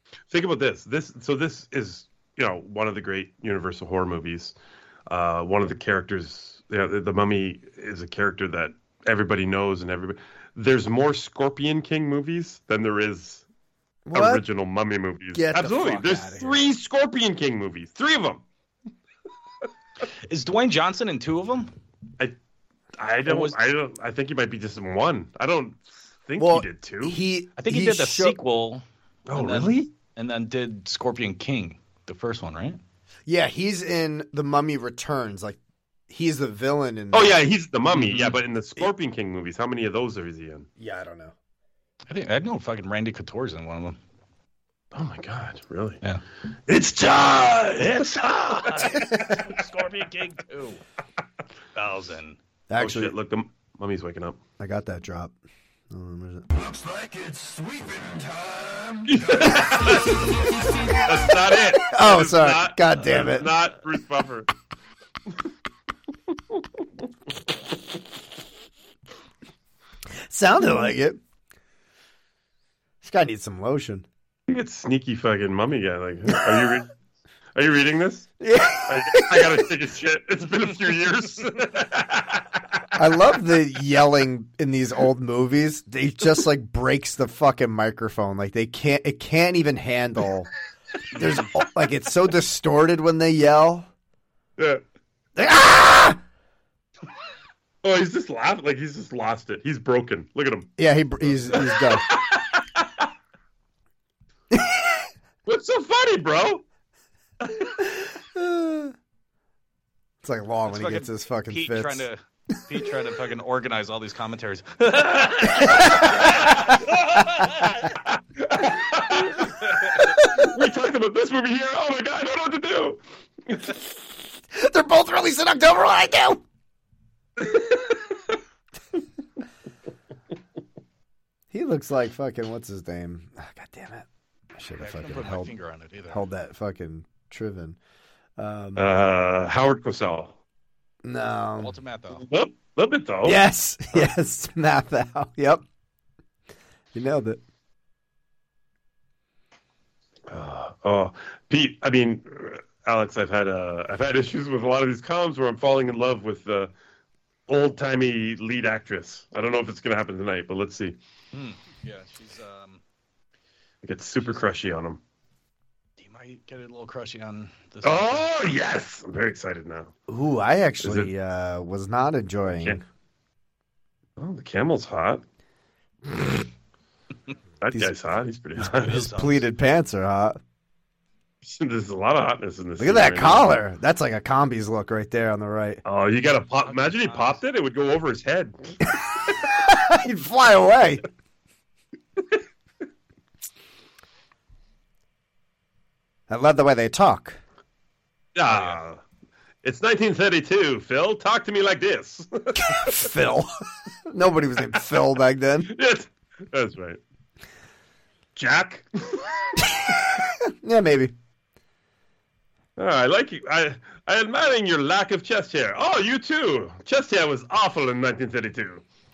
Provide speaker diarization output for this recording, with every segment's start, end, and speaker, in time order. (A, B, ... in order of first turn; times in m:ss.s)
0:00.3-0:04.5 A
0:05.1-0:13.4 A
0:14.0-0:14.4 B
0:14.1-0:18.4 A
0:15.3-0:16.7 B
0:20.1-0:21.7 C
0:23.0-0:27.2 A
0:23.2-0:23.6 C
0:26.4-0:28.4 B
0:27.6-0:32.8 C
0:29.3-0:29.9 A
0:33.3-0:35.6 B
0:36.1-0:37.4 B
0:37.1-0:40.7 A
0:37.9-0:38.3 C
0:40.8-0:41.3 B
0:42.1-0:44.0 C
0:44.9-0:46.0 A
0:46.7-0:48.2 A
0:47.8-0:50.8 C
0:49.0-0:49.4 B
0:51.7-0:52.4 C
0:52.7-0:53.1 B
0:52.8-0:54.4 A
0:54.6-0:55.3 B
0:55.9-0:56.7 B
0:59.0-1:04.5 A
1:01.8-1:03.5 B
1:10.3-1:11.2 B
1:13.0-1:14.0 B
1:14.5-1:16.9 A
1:17.5-1:22.6 A
1:18.4-1:19.7 B
1:22.9-1:30.5 B
1:31.1-1:33.9 B
1:35.4-1:36.2 B
1:37.8-1:40.7 A
1:40.8-1:42.1 B
1:41.4-1:43.1 A
1:44.5-1:45.0 B
1:45.4-1:46.6 A
1:47.8-1:48.9 B
1:50.2-1:52.0 B
1:50.7-1:57.7 C
1:55.7-1:56.2 B
1:57.8-2:03.8 A
1:59.5-2:00.1 C
2:04.5-2:06.4 B
2:07.4-2:08.2 A
2:11.5-2:15.5 B
2:14.8-2:16.2 C
2:16.1-2:17.8 B
2:18.4-2:18.9 B
2:18.8-2:20.4 A
2:21.0-2:21.8 B
2:21.6-2:22.2 C
2:22.2-2:23.4 A
2:23.2-2:25.6 B
2:26.9-2:27.4 B
2:30.3-2:36.7 A
2:37.5-2:41.0 A
2:41.3-2:42.8 C
2:43.8-2:45.0 A
2:46.0-2:48.3 C
2:47.8-2:49.9 A
2:50.1-2:52.8 B
2:50.8-2:51.1 A
2:52.4-2:52.8 A
2:54.2-2:55.2 A
2:57.6-2:59.0 A
2:58.6-2:59.4 C
2:58.9-3:00.4 B
3:01.4-3:03.6 A
3:02.8-3:05.8 B
3:05.8-3:08.8 A
3:06.6-3:07.4 C
3:09.4-3:11.0 B
3:16.3-3:17.4 B
3:18.3-3:19.0 A
3:18.5-3:18.8 C
3:19.6-3:23.0 A
3:22.6-3:23.5 B
3:24.1-3:25.7 B
3:25.6-3:27.0 A
3:28.3-3:29.6 A
3:30.4-3:31.1 B
3:32.8-3:38.8 A